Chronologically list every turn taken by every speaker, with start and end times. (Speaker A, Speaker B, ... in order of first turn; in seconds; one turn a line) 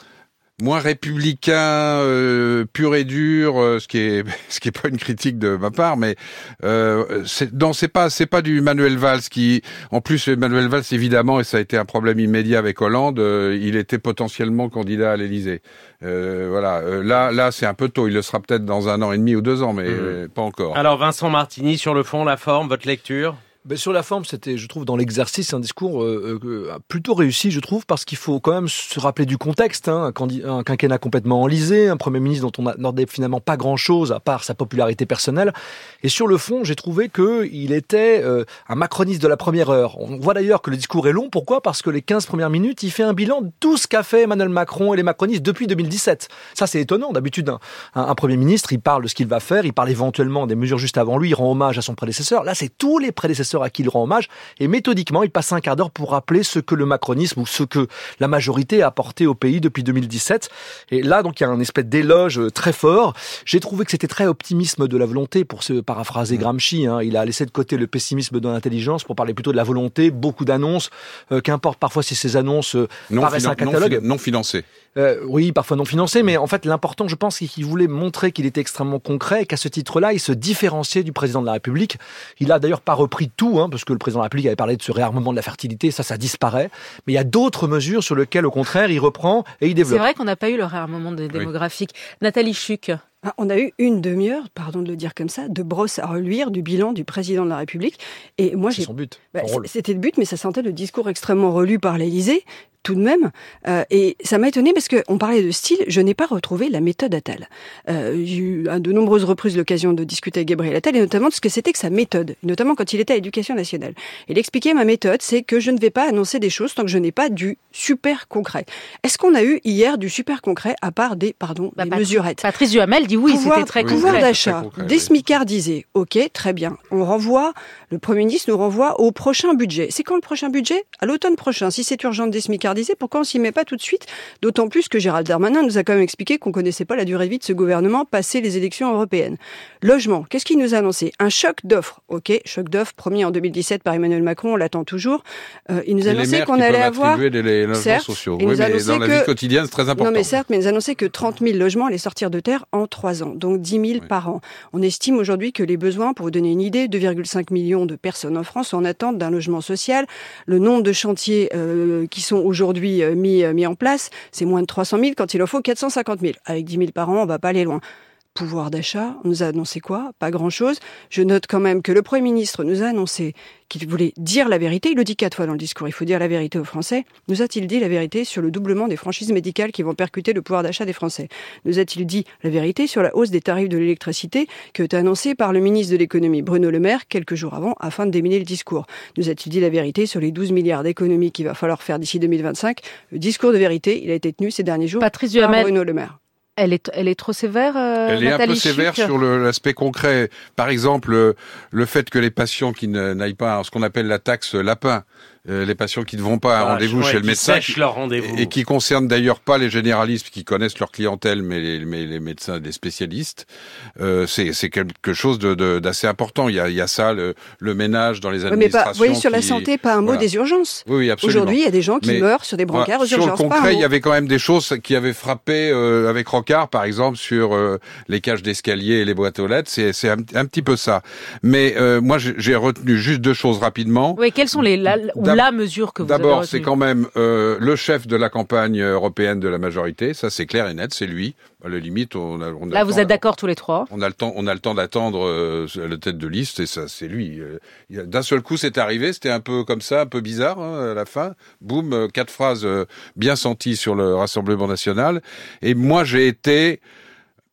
Speaker A: 0.6-20.8
Speaker B: 19.9-20.2
Speaker B: 20.7-23.4
Speaker C: 23.6-74.0
Speaker A: 73.1-74.6
Speaker C: 75.0-90.0
Speaker D: 89.8-93.0
Speaker E: 93.2-122.5
Speaker C: 98.7-99.7
Speaker D: 121.8-124.2
Speaker E: 123.2-149.3
Speaker A: 123.8-125.1
Speaker A: 146.0-150.3
Speaker E: 149.9-167.8
Speaker E: 168.3-196.2
Speaker D: 195.0-195.7
Speaker D: 196.6-199.1
Speaker A: 198.1-213.5
Speaker B: 206.6-208.5
Speaker A: 214.0-220.3
Speaker E: 218.5-223.9
Speaker A: 220.8-234.2
Speaker D: 234.2-236.7
Speaker A: 235.1-235.5
Speaker A: 236.0-243.2
Speaker D: 242.7-243.9
Speaker A: 243.9-256.8